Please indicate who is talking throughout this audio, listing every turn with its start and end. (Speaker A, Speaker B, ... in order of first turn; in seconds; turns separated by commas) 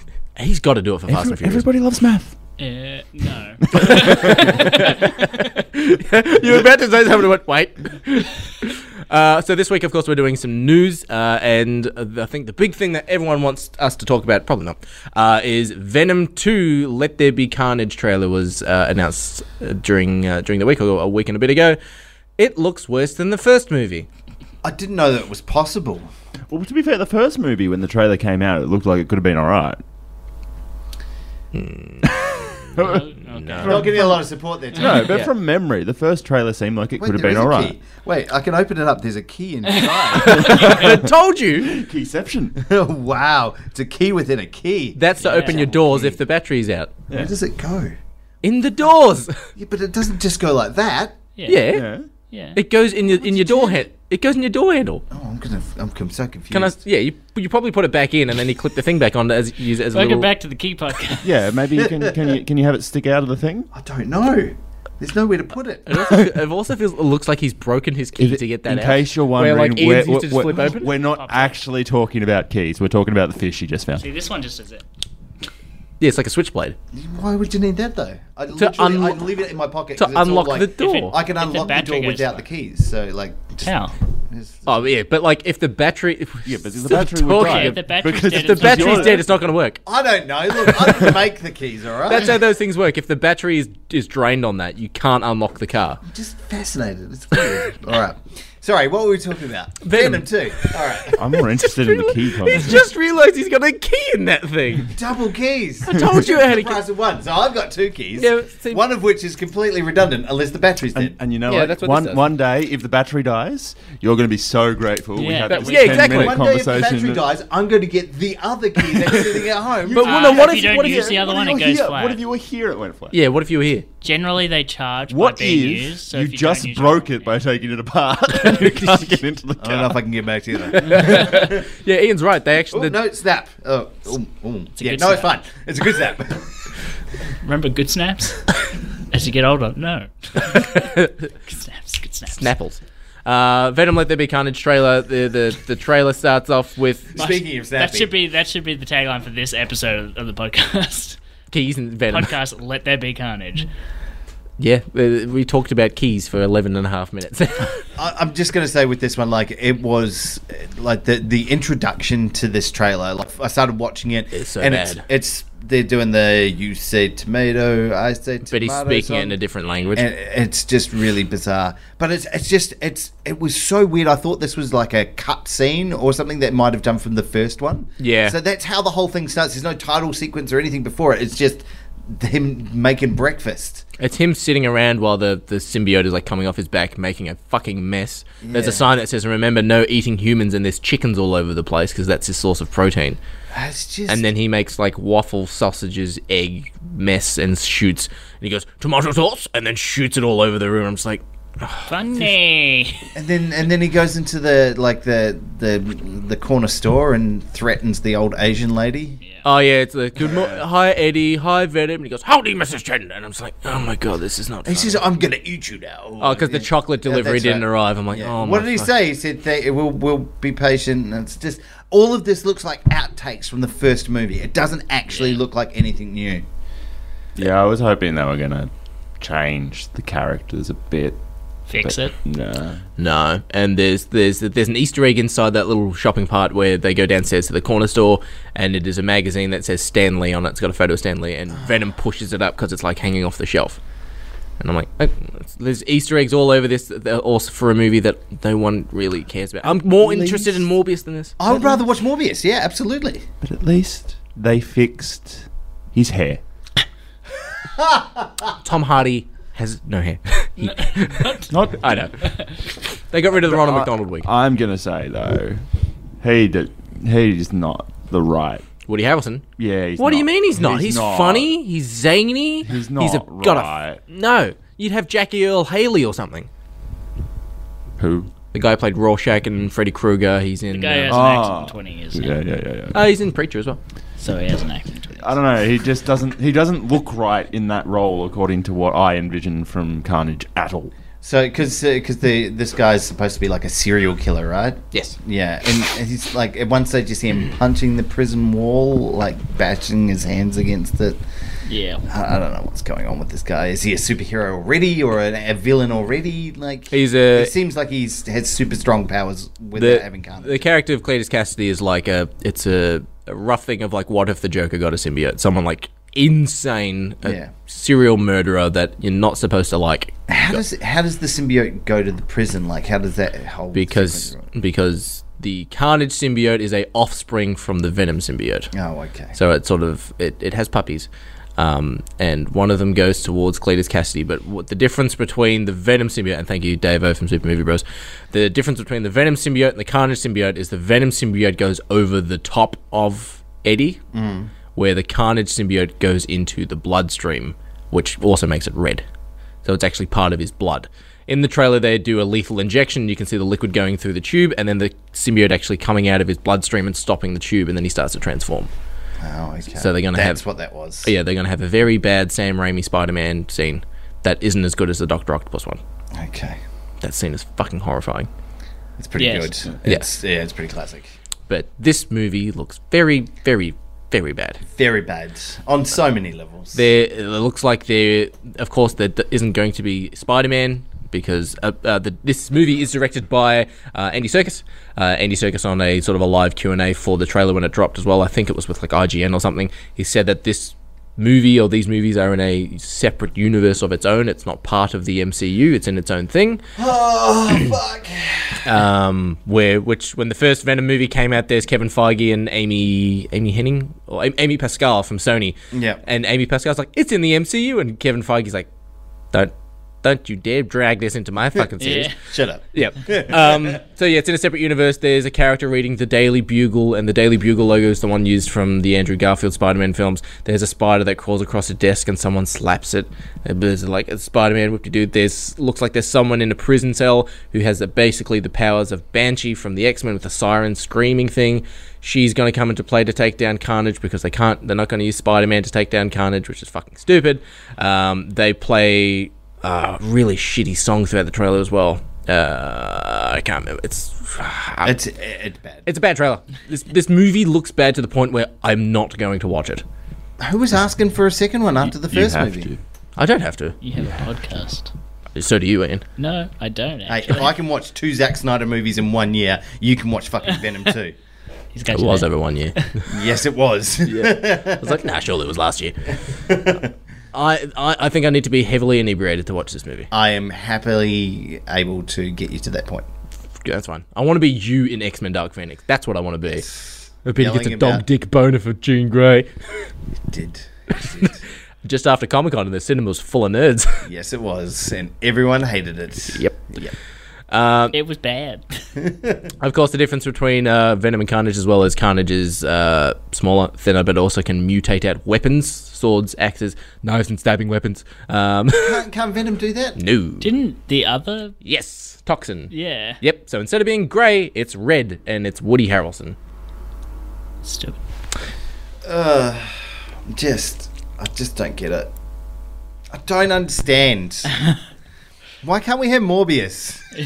Speaker A: 0.3-1.6, Speaker B: 1.1-2.3, Speaker C: 2.6-5.1, Speaker A: 3.8-21.8, Speaker B: 3.8-4.5, Speaker A: 22.4-24.1, Speaker D: 24.6-26.1, Speaker B: 26.5-29.8, Speaker A: 31.5-34.1, Speaker B: 32.7-34.1, Speaker C: 32.8-34.1, Speaker D: 33.6-35.2, Speaker B: 34.7-37.7, Speaker A: 35.0-35.3, Speaker D: 37.0-40.9, Speaker C: 39.8-40.4, Speaker A: 40.1-41.7, Speaker B: 40.3-42.5, Speaker D: 42.6-46.2, Speaker A: 44.9-46.9, Speaker C: 45.2-45.7, Speaker D: 47.1-47.9, Speaker A: 48.4-49.5, Speaker D: 49.5-51.1, Speaker C: 51.4-51.7, Speaker A: 51.4-51.9, Speaker B: 51.7-52.1, Speaker C: 52.3-52.6, Speaker A: 52.5-55.0, Speaker D: 53.1-53.9, Speaker D: 55.1-56.8, Speaker A: 56.5-60.3, Speaker C: 59.9-61.4, Speaker B: 61.2-63.7, Speaker D: 61.8-62.1, Speaker D: 63.7-66.0, Speaker A: 65.8-70.9, Speaker B: 68.2-74.0, Speaker C: 70.8-71.6, Speaker C: 74.0-74.8, Speaker A: 76.0-76.8, Speaker D: 76.9-83.7, Speaker A: 78.5-79.3, Speaker A: 80.0-81.1, Speaker C: 80.8-82.4, Speaker C: 83.6-83.9, Speaker D: 84.3-84.7, Speaker A: 84.7-89.8, Speaker B: 86.4-89.3, Speaker C: 87.3-89.2, Speaker D: 89.8-92.4, Speaker A: 90.6-91.1, Speaker A: 92.1-96.0, Speaker D: 96.1-101.2, Speaker A: 99.8-104.9, Speaker B: 101.1-102.8, Speaker D: 104.9-111.2, Speaker A: 105.8-106.8, Speaker A: 108.2-108.8, Speaker B: 110.9-117.2, Speaker A: 111.5-112.3, Speaker C: 115.2-116.0, Speaker A: 115.5-116.4, Speaker D: 115.8-120.3, Speaker B: 119.0-123.2, Speaker A: 119.9-121.2, Speaker C: 120.0-122.2, Speaker A: 123.1-123.9, Speaker C: 124.0-127.3, Speaker B: 125.1-130.0, Speaker A: 128.4-129.2, Speaker D: 129.6-131.6, Speaker A: 130.7-133.0, Speaker D: 132.7-136.5, Speaker C: 134.8-135.3, Speaker C: 137.4-138.6, Speaker C: 139.1-140.9, Speaker A: 140.4-141.3, Speaker C: 141.4-142.5, Speaker A: 142.3-147.2, Speaker D: 147.1-148.1, Speaker C: 147.2-151.2, Speaker A: 151.5-152.3, Speaker C: 152.1-153.7, Speaker A: 154.6-157.8, Speaker D: 158.0-169.4, Speaker A: 164.3-165.0, Speaker A: 168.5-170.1, Speaker D: 169.9-183.8, Speaker A: 178.0-178.3, Speaker A: 184.0-193.2, Speaker D: 188.4-188.8, Speaker D: 193.5-194.2, Speaker A: 194.1-201.9, Speaker C: 201.9-203.1, Speaker D: 203.1-209.2, Speaker A: 209.4-215.0, Speaker D: 214.6-226.4, Speaker A: 216.2-218.9, Speaker C: 225.1-225.4, Speaker B: 227.3-231.2, Speaker C: 231.7-232.1, Speaker B: 231.7-232.8, Speaker A: 233.0-243.8, Speaker A: 244.6-251.4, Speaker D: 250.0-250.6, Speaker D: 251.4-253.2, Speaker B: 253.4-256.4, Speaker D: 257.8-258.5, Speaker A: 258.6-264.3, Speaker C: 260.6-261.6, Speaker B: 261.5-262.1, Speaker C: 262.2-262.5, Speaker B: 263.4-265.6, Speaker B: 266.2-268.6, Speaker A: 268.9-269.4, Speaker B: 269.6-271.5, Speaker A: 270.0-276.5, Speaker B: 272.6-274.0, Speaker B: 278.0-278.3, Speaker A: 278.5-281.2, Speaker C: 280.7-282.4, Speaker B: 281.1-283.0, Speaker A: 282.9-283.8, Speaker C: 284.2-285.4, Speaker B: 285.2-290.9, Speaker D: 291.2-301.2, Speaker C: 301.6-302.0, Speaker D: 302.1-310.7, Speaker A: 306.9-307.5, Speaker A: 309.7-320.6, Speaker D: 317.2-317.5, Speaker D: 320.3-324.5, Speaker A: 323.7-328.7, Speaker D: 328.7-329.4, Speaker A: 329.3-344.0, Speaker D: 344.1-344.5, Speaker A: 344.7-349.0, Speaker A: 349.6-358.7, Speaker D: 359.2-361.1, Speaker A: 359.8-360.4, Speaker A: 361.0-365.8, Speaker D: 366.1-366.6, Speaker A: 367.0-368.3, Speaker D: 369.0-371.1, Speaker C: 369.1-369.5, Speaker A: 371.5-374.6, Speaker D: 374.7-376.8, Speaker A: 376.7-396.6, Speaker D: 396.8-398.7, Speaker A: 398.6-408.7, Speaker D: 405.7-406.0, Speaker A: 409.3-412.1, Speaker D: 411.6-413.8, Speaker C: 411.8-412.2, Speaker A: 412.7-444.9, Speaker D: 444.8-445.9, Speaker A: 445.9-449.8, Speaker D: 450.4-452.7, Speaker B: 451.9-452.8, Speaker A: 453.2-453.8, Speaker C: 453.8-454.9, Speaker A: 455.3-456.0, Speaker C: 456.2-457.6, Speaker D: 457.1-461.1, Speaker C: 461.7-463.0, Speaker A: 461.9-462.9, Speaker D: 463.1-465.0, Speaker A: 464.0-466.1, Speaker D: 466.4-466.9, Speaker A: 467.3-470.1, Speaker D: 470.1-473.1, Speaker A: 473.6-476.6, Speaker D: 476.5-478.0, Speaker A: 477.2-479.5, Speaker D: 480.3-481.4, Speaker A: 481.8-484.1, Speaker D: 484.0-486.9, Speaker A: 486.3-486.7, Speaker A: 487.5-487.9, Speaker C: 487.9-488.9, Speaker D: 489.0-489.5, Speaker A: 489.6-499.0, Speaker D: 498.8-500.0, Speaker A: 499.9-500.5, Speaker C: 500.4-501.6, Speaker A: 501.6-506.4, Speaker C: 502.7-503.2, Speaker C: 507.6-508.0, Speaker D: 509.0-512.1, Speaker D: 513.1-514.5, Speaker D: 515.6-517.0